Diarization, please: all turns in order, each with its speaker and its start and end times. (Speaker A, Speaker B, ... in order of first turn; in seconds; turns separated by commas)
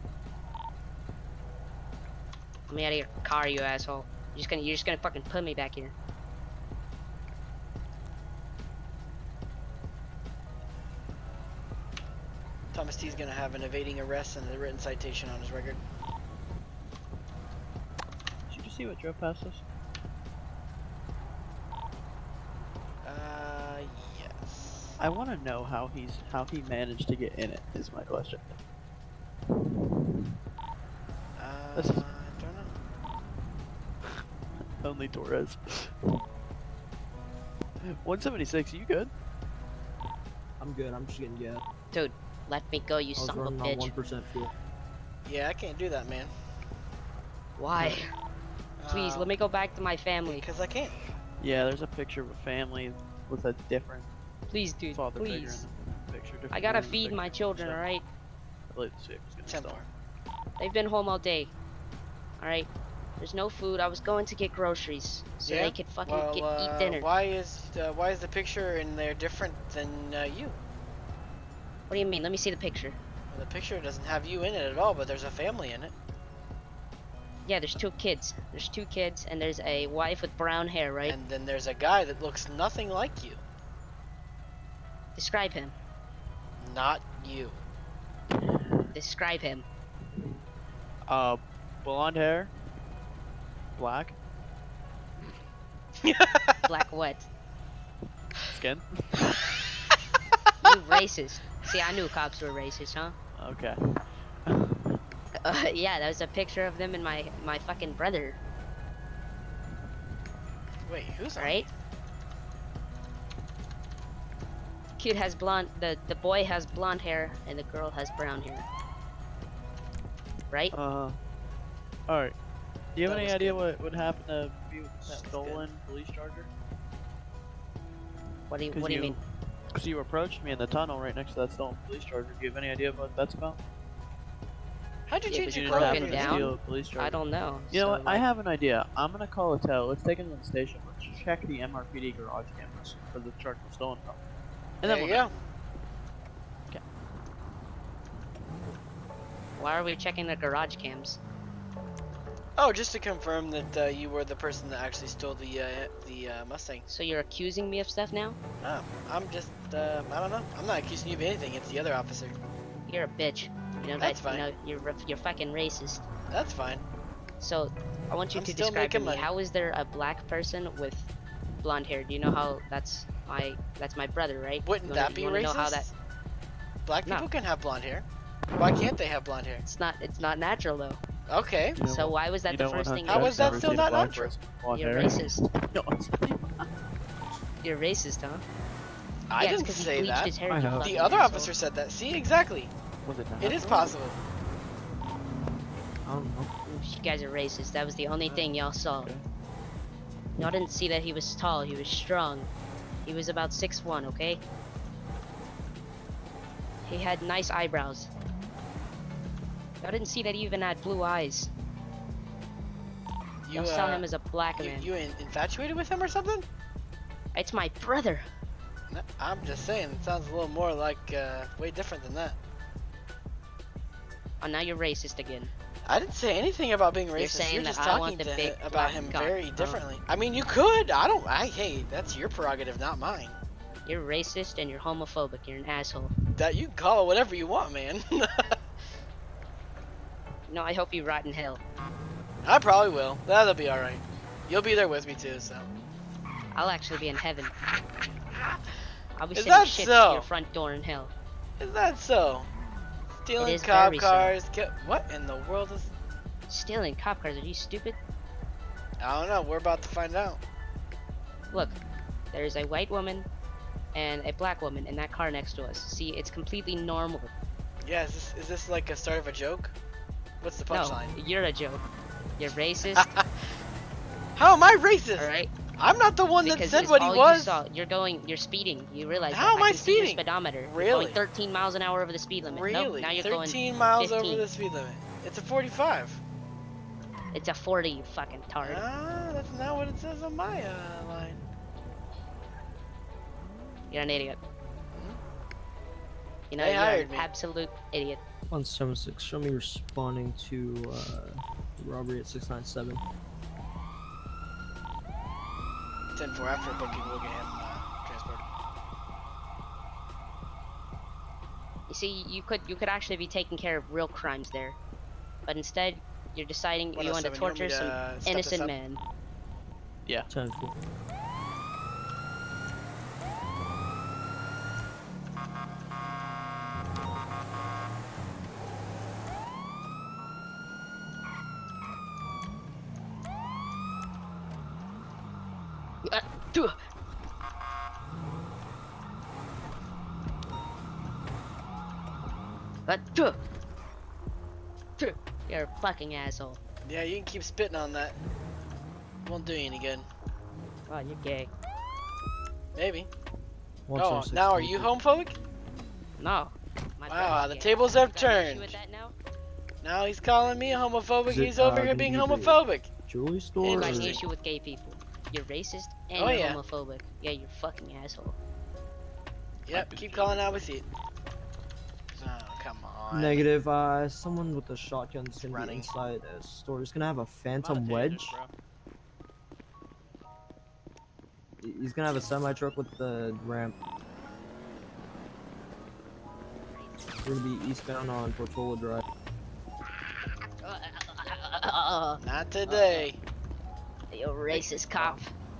Speaker A: 2.7-5.9, Speaker B: 12.7-15.8, Speaker C: 18.5-19.6, Speaker B: 23.0-25.0, Speaker C: 25.0-28.6, Speaker B: 31.4-32.7, Speaker C: 31.7-32.1, Speaker C: 34.6-36.1, Speaker C: 37.8-39.1, Speaker D: 40.6-41.6, Speaker A: 41.9-43.9, Speaker D: 43.1-44.5, Speaker B: 45.2-46.3, Speaker A: 47.6-48.1, Speaker B: 48.8-49.3, Speaker A: 48.9-50.5, Speaker B: 50.2-51.0, Speaker C: 51.4-54.1, Speaker A: 54.5-55.7, Speaker C: 54.9-57.8, Speaker A: 56.5-58.0, Speaker C: 58.7-59.8, Speaker B: 59.5-59.9, Speaker A: 60.6-61.5, Speaker A: 62.4-67.1, Speaker B: 65.5-70.6, Speaker A: 71.9-73.0, Speaker B: 73.3-75.9, Speaker A: 77.5-81.2, Speaker B: 81.0-83.4, Speaker A: 85.2-85.7, Speaker B: 86.6-87.6, Speaker C: 88.4-88.8, Speaker A: 88.9-89.7, Speaker C: 91.1-92.5, Speaker C: 93.8-94.1, Speaker B: 96.0-96.6, Speaker A: 96.7-97.3, Speaker C: 98.5-99.3, Speaker A: 100.6-103.2, Speaker C: 103.3-105.0, Speaker A: 105.4-108.4, Speaker B: 110.9-111.7, Speaker A: 111.3-111.7, Speaker A: 115.0-118.7, Speaker A: 120.5-120.7, Speaker C: 120.7-121.2, Speaker C: 122.1-122.3, Speaker C: 122.9-126.5, Speaker B: 123.0-123.6, Speaker B: 125.1-125.7, Speaker A: 128.5-129.2, Speaker C: 128.7-129.2, Speaker C: 129.7-133.6, Speaker B: 135.1-136.5, Speaker A: 135.3-138.2, Speaker C: 135.4-144.2, Speaker C: 144.8-145.3, Speaker B: 144.8-145.3, Speaker A: 149.6-151.2, Speaker B: 152.6-156.8, Speaker A: 156.9-158.4, Speaker B: 158.6-162.4, Speaker A: 162.8-166.1, Speaker B: 164.0-164.5, Speaker B: 166.3-166.8, Speaker A: 167.4-171.1, Speaker B: 168.3-169.3, Speaker A: 171.6-175.9, Speaker B: 174.6-175.9, Speaker B: 176.8-178.1, Speaker B: 178.6-179.6, Speaker A: 179.7-181.0, Speaker B: 181.3-181.8, Speaker C: 181.8-186.7, Speaker A: 181.8-184.1, Speaker B: 183.1-184.3, Speaker A: 184.7-185.4, Speaker A: 187.6-188.4, Speaker B: 189.3-192.7, Speaker A: 189.4-191.5, Speaker D: 190.5-190.9, Speaker C: 193.0-193.9, Speaker B: 193.4-194.2, Speaker D: 196.0-196.5, Speaker A: 196.7-199.1, Speaker A: 200.4-202.5, Speaker A: 203.0-204.4, Speaker A: 206.8-208.1, Speaker A: 209.8-211.5, Speaker B: 213.5-216.4, Speaker A: 213.5-214.9, Speaker A: 217.3-218.3, Speaker B: 218.9-222.4, Speaker A: 224.4-225.5, Speaker B: 225.8-233.4, Speaker A: 227.2-229.8, Speaker A: 233.8-236.1, Speaker B: 236.4-238.6, Speaker A: 240.5-241.6, Speaker B: 242.4-245.7, Speaker A: 246.5-247.5, Speaker A: 249.2-251.1, Speaker B: 249.3-250.3, Speaker B: 251.6-252.5, Speaker B: 253.2-255.9, Speaker A: 253.4-254.3, Speaker A: 256.5-258.0, Speaker B: 259.0-260.4, Speaker A: 262.3-263.3, Speaker A: 263.9-267.3, Speaker B: 267.8-269.7, Speaker B: 270.4-271.1, Speaker A: 270.7-271.8, Speaker A: 272.4-273.1, Speaker B: 272.8-273.2, Speaker B: 274.4-277.6, Speaker A: 275.2-275.5, Speaker A: 276.4-284.4, Speaker B: 279.3-281.2, Speaker B: 282.4-286.2, Speaker A: 287.3-288.8, Speaker B: 288.6-291.4, Speaker A: 293.9-294.4, Speaker B: 294.9-295.2, Speaker A: 296.5-298.2, Speaker B: 296.6-297.3, Speaker D: 298.5-303.0, Speaker B: 306.1-308.4, Speaker A: 311.9-314.8, Speaker A: 315.4-319.0, Speaker B: 316.9-318.8, Speaker D: 320.3-320.8, Speaker A: 336.0-336.8, Speaker A: 342.9-343.4, Speaker A: 345.0-346.6, Speaker B: 346.9-348.2, Speaker B: 349.2-350.1, Speaker A: 350.9-351.5, Speaker B: 352.8-353.1, Speaker D: 353.9-354.9, Speaker B: 354.0-355.4, Speaker A: 356.2-359.1, Speaker B: 357.1-358.8, Speaker B: 359.8-362.9, Speaker D: 361.2-364.2, Speaker B: 363.6-364.2, Speaker A: 363.7-368.4, Speaker B: 366.1-366.6, Speaker B: 369.7-370.9, Speaker C: 369.7-370.7, Speaker B: 372.2-373.4, Speaker D: 373.1-378.4, Speaker B: 375.4-375.9, Speaker C: 377.6-378.5, Speaker D: 381.6-383.8, Speaker D: 387.2-389.0, Speaker A: 390.6-392.2, Speaker B: 392.2-393.2, Speaker D: 392.7-393.1, Speaker A: 394.1-395.3, Speaker C: 394.5-395.2